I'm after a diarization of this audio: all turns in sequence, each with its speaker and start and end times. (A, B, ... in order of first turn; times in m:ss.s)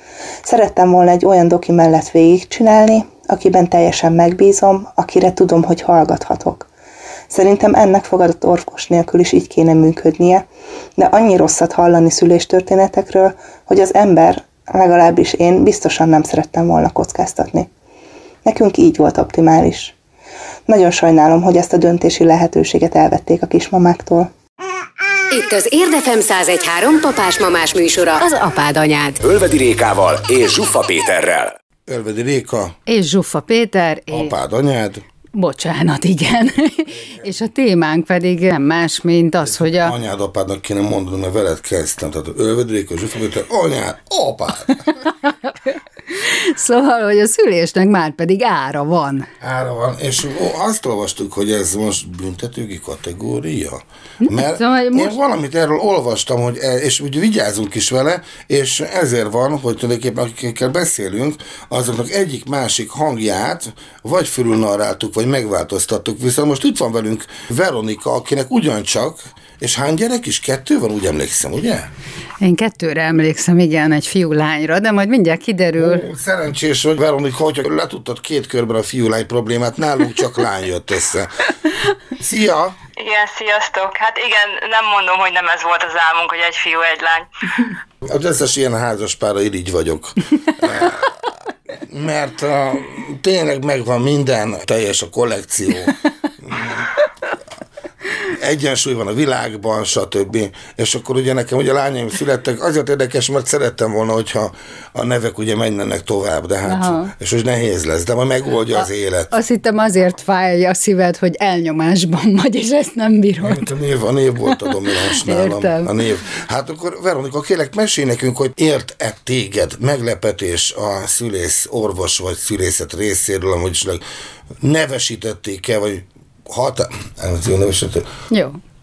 0:00.4-0:06.7 A
0:07.3-0:10.4 A
0:11.0-0:17.7 A
0:18.4-0:19.9 A
0:20.7-0:24.3 A
0:25.3-0:29.2 B
0:29.2-0:31.5 C
0:31.9-0:32.8 D
0:32.9-0:34.3 E
0:34.1-0:35.0 D
0:35.3-0:39.9 E
0:36.9-0:37.3 D
0:39.4-0:44.8 D
0:45.3-0:49.3 E
0:49.4-1:11.9 D
0:54.2-0:55.1 E
1:12.4-1:16.0 E
1:15.8-1:21.5 D
1:22.2-1:22.8 D
1:23.0-1:27.7 F
1:28.0-1:31.1 D
1:31.7-1:36.9 D
1:38.2-1:49.3 D
1:46.6-1:47.1 E
1:48.8-1:53.7 E
1:53.4-2:04.0 D
1:54.5-1:55.9 E
2:04.6-2:08.1 D
2:08.3-2:08.6 E